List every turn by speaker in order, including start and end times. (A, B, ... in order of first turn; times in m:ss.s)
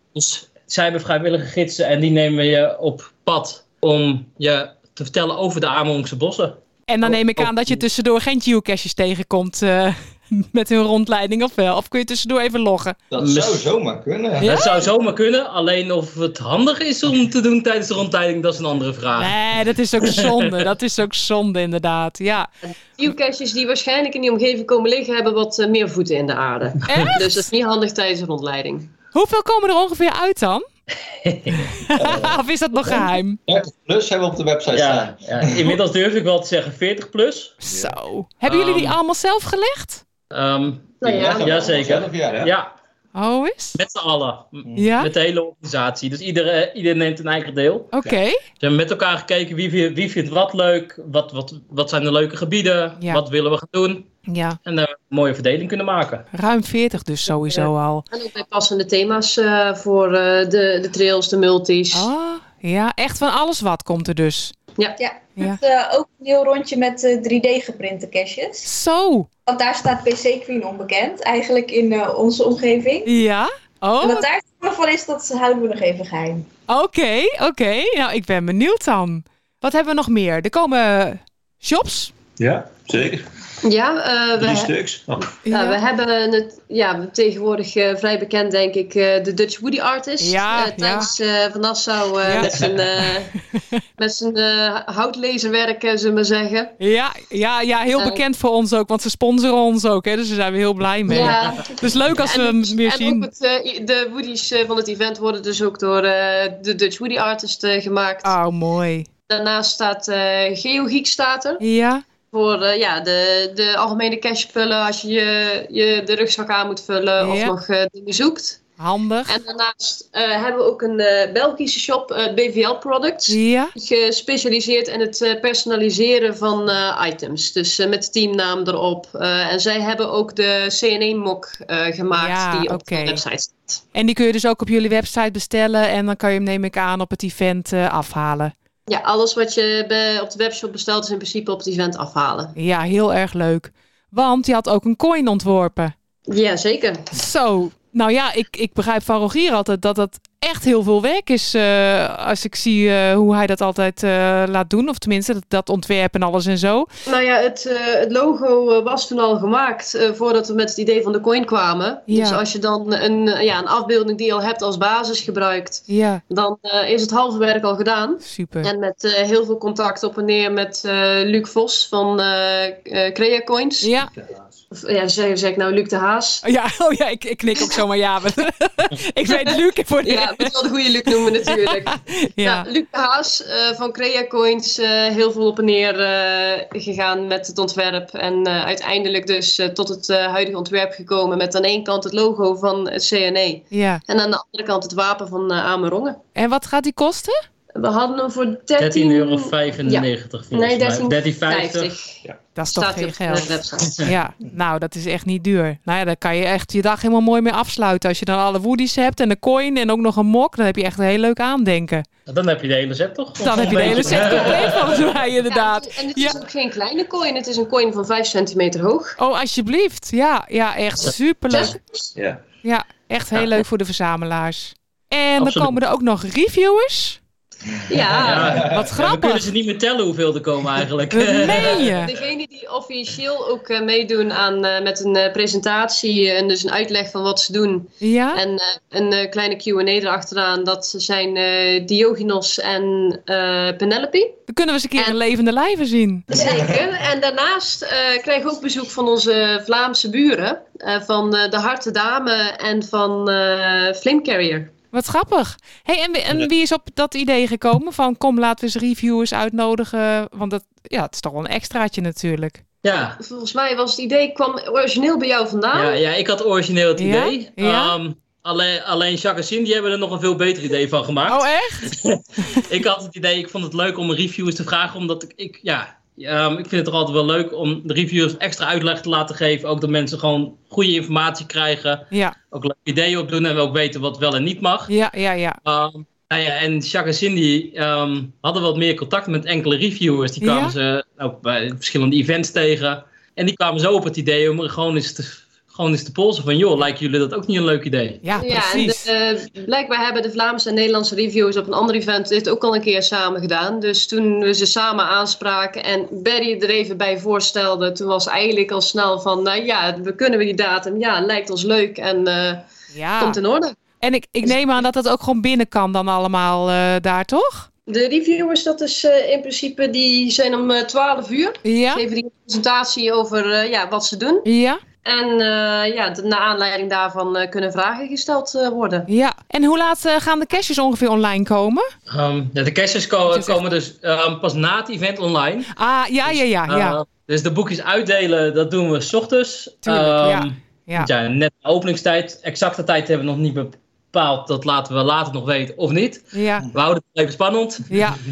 0:00.1-0:06.6 A
0:06.9-0:13.0 B
0:13.1-0:14.5 C
0:13.2-0:13.7 A
0:14.4-0:14.9 B
0:14.4-0:19.4 A
0:19.2-0:22.5 B
0:20.0-0:20.6 A
0:22.9-0:28.9 D
0:26.9-0:27.5 B
0:29.1-0:30.6 B
0:31.2-0:31.7 A
0:31.5-0:33.4 B
0:32.0-0:32.4 C
0:32.9-0:35.8 C
0:34.7-0:37.5 A
0:37.6-0:40.0 B
0:37.6-0:37.9 E
0:38.4-0:39.0 A
0:40.3-0:42.7 A
0:41.0-0:41.5 D
0:41.1-0:42.5 E
0:41.2-0:42.5 C
0:43.1-0:43.8 B
0:43.7-0:47.9 A
0:44.7-0:45.1 B
0:47.9-0:48.4 B
0:48.6-0:54.1 A
0:54.3-0:54.6 B
0:54.6-0:56.3 A
0:56.3-0:58.0 B
0:57.6-1:02.1 D
1:01.9-1:04.5 B
1:05.0-1:08.7 F
1:08.6-1:09.3 B
1:09.5-1:13.1 F
1:13.1-1:14.2 B
1:14.0-1:16.5 F
1:16.7-1:22.1 B
1:22.4-1:23.3 E
1:23.6-1:24.7 D
1:24.4-1:25.3 E
1:25.4-1:25.8 B
1:25.5-1:33.3 D
1:30.2-1:31.1 B
1:32.2-1:32.5 B
1:32.4-1:32.7 E
1:34.0-1:36.7 D
1:36.8-1:43.3 B
1:38.0-1:38.2 D
1:41.1-1:48.3 D
1:48.2-1:49.1 B
1:49.3-1:51.6 D
1:51.6-1:52.0 B
1:52.3-1:58.6 D
1:57.2-1:57.5 B
1:58.8-1:59.4 B
1:59.3-2:13.8 D
2:03.3-2:03.7 B
2:12.2-2:13.2 B
2:13.9-2:18.5 B
2:18.9-2:22.5 D
2:22.6-2:25.9 B
2:26.3-2:27.1 D
2:27.1-2:36.9 B
2:37.1-2:53.9 D
2:42.1-2:42.4 B
2:45.9-2:46.2 B
2:48.2-2:48.7 B
2:53.8-2:54.1 B
2:54.2-2:54.6 E
2:54.7-2:56.4 D
2:56.4-3:00.5 B
2:59.5-3:16.2 D
3:01.1-3:02.6 B
3:13.7-3:14.0 B
3:16.4-3:17.4 B
3:17.8-3:24.1 D
3:18.8-3:21.9 A
3:22.6-3:32.0 B
3:32.3-3:35.0 A
3:33.4-3:36.4 B
3:34.0-3:39.2 D
3:39.2-3:41.8 B
3:41.5-3:42.1 D
3:42.1-3:42.4 E
3:42.6-3:47.2 B
3:45.4-3:45.8 A
3:47.9-3:48.7 D
3:48.2-3:52.0 A
3:48.6-3:49.5 B
3:51.1-3:52.1 B
3:51.4-4:04.4 D
3:58.0-3:58.4 B
4:04.5-4:06.3 B
4:06.3-4:14.7 D
4:14.9-4:22.6 B
4:22.8-4:23.2 A
4:23.2-4:26.0 D
4:25.7-4:44.9 A
4:27.0-4:28.0 B
4:31.3-4:32.4 B
4:44.9-4:45.6 B
4:45.6-4:58.2 A
4:50.4-4:50.7 B
4:58.2-4:59.0 B
4:58.4-5:13.8 D
5:12.9-5:13.4 B
5:14.0-5:17.7 B
5:17.9-5:24.4 D
5:21.6-5:22.0 B
5:24.4-5:24.8 B
5:25.0-5:29.1 D
5:29.1-5:31.9 B
5:32.1-5:35.7 A
5:33.3-5:33.6 B
5:35.8-5:37.0 B
5:36.2-5:47.9 A
5:39.8-5:41.1 B
5:46.3-5:46.7 B
5:47.9-5:48.2 B